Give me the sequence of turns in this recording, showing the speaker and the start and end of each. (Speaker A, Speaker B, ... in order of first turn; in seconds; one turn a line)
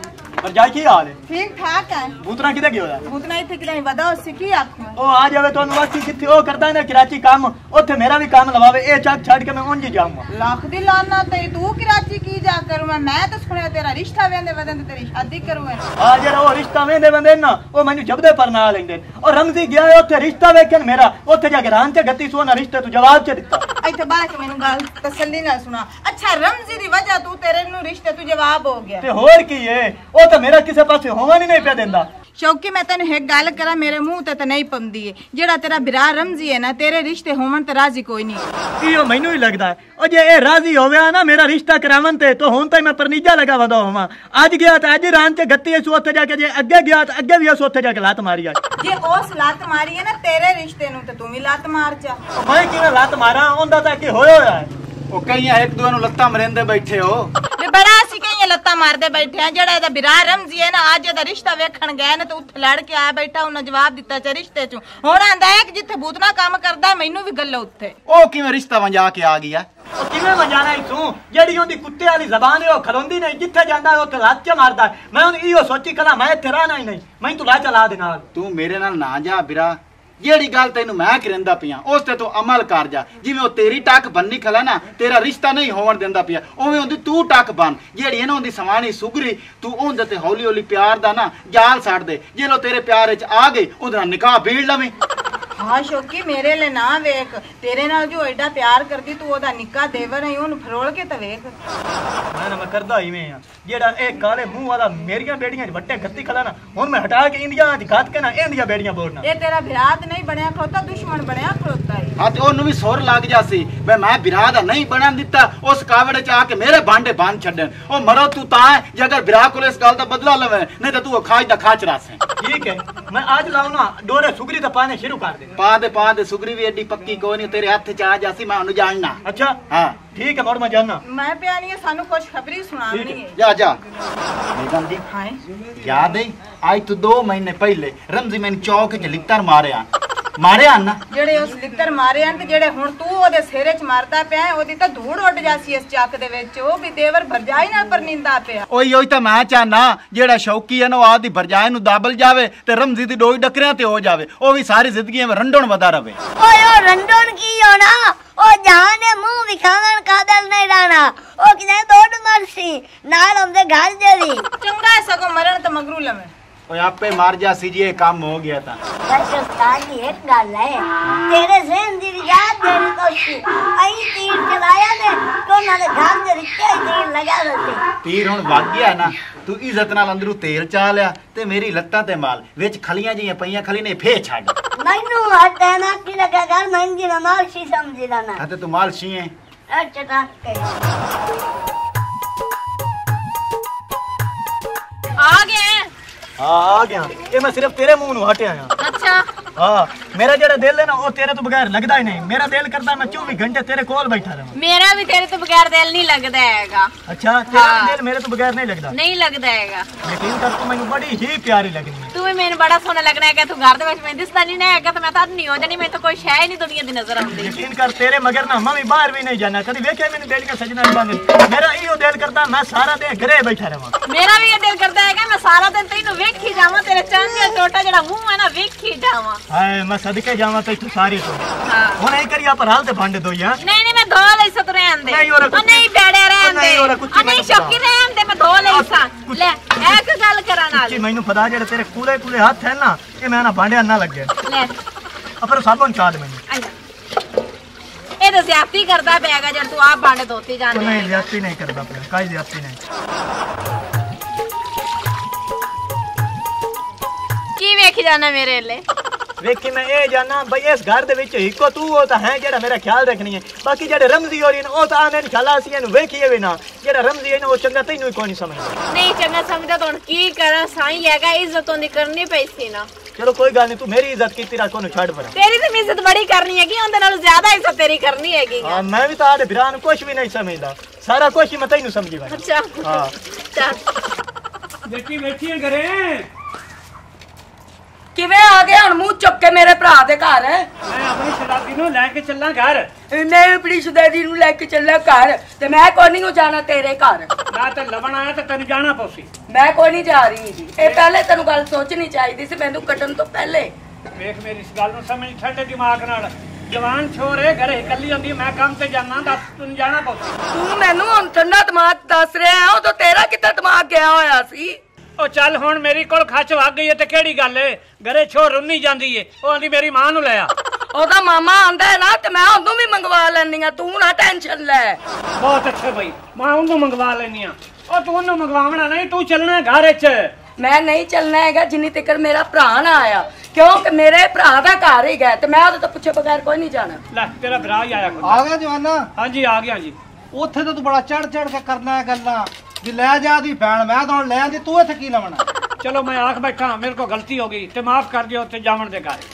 Speaker A: 0.4-1.2
Speaker B: 1.3-2.1
Speaker A: 2.2-3.0
Speaker B: 3.0-5.0
Speaker A: 5.0-10.2
Speaker B: 10.3-15.9
Speaker A: 16.0-23.6
Speaker B: 23.8-29.1
Speaker A: 29.0-32.1
Speaker B: 32.4-38.5
Speaker A: 38.8-48.6
Speaker B: 48.8-52.2
Speaker A: 52.4-54.7
Speaker C: 55.1-57.3
Speaker B: 57.6-67.9
Speaker C: 68.0-69.7
Speaker A: 70.0-78.2
Speaker C: 78.3-94.9
Speaker B: 95.6-101.5
Speaker A: 102.3-109.2
Speaker B: 109.2-112.1
Speaker C: 112.2-122.2
Speaker A: 122.4-125.5
Speaker C: 125.6-130.0
Speaker A: 129.2-131.0
Speaker B: 131.0-133.3
Speaker A: 132.9-133.2
Speaker C: 133.3-133.8
Speaker C: 134.5-135.0
Speaker B: 135.1-135.4
Speaker C: 135.7-141.0
Speaker B: 141.1-148.7
Speaker C: 148.7-156.2
Speaker D: 156.4-164.4
Speaker B: 164.6-166.3
Speaker C: 166.7-168.8
Speaker D: 169.1-177.8
Speaker C: 178.0-184.5
Speaker D: 184.8-188.4
Speaker C: 188.4-189.3
Speaker D: 189.7-190.6
Speaker E: 195.2-195.9
Speaker A: 196.4-198.7
Speaker E: 198.8-199.2
Speaker A: 199.6-204.5
Speaker E: 204.5-206.9
Speaker A: 207.1-208.9
Speaker E: 207.5-208.0
Speaker E: 208.9-209.9
Speaker A: 210.0-212.1
Speaker E: 212.1-217.5
Speaker A: 217.3-223.9
Speaker E: 224.1-229.4
Speaker A: 229.5-231.4
Speaker E: 231.7-232.0
Speaker A: 232.0-233.6
Speaker E: 233.6-241.0
Speaker A: 235.1-235.9
Speaker A: 236.4-237.8
Speaker A: 238.7-239.4
Speaker A: 240.7-244.3
Speaker E: 244.4-244.8
Speaker A: 245.4-246.4
Speaker E: 246.5-246.7
Speaker E: 248.2-251.3
Speaker A: 250.7-252.8
Speaker E: 257.6-258.8
Speaker A: 259.4-268.8
Speaker E: 268.9-272.9
Speaker A: 273.1-275.3
Speaker E: 275.3-278.8
Speaker A: 278.6-283.1
Speaker E: 282.3-283.8
Speaker F: 284.9-286.3
Speaker G: 288.1-290.7
Speaker F: 290.8-292.9
Speaker G: 293.1-297.3
Speaker F: 297.5-299.3
Speaker G: 299.5-303.7
Speaker F: 300.8-301.1
Speaker F: 304.1-310.4
Speaker G: 310.5-314.8
Speaker F: 315.2-320.5
Speaker G: 320.9-325.0
Speaker F: 325.4-330.3
Speaker G: 330.6-337.0
Speaker F: 337.1-338.4
Speaker H: 338.2-339.1
Speaker F: 339.1-339.9
Speaker H: 340.3-345.4
Speaker F: 345.8-349.2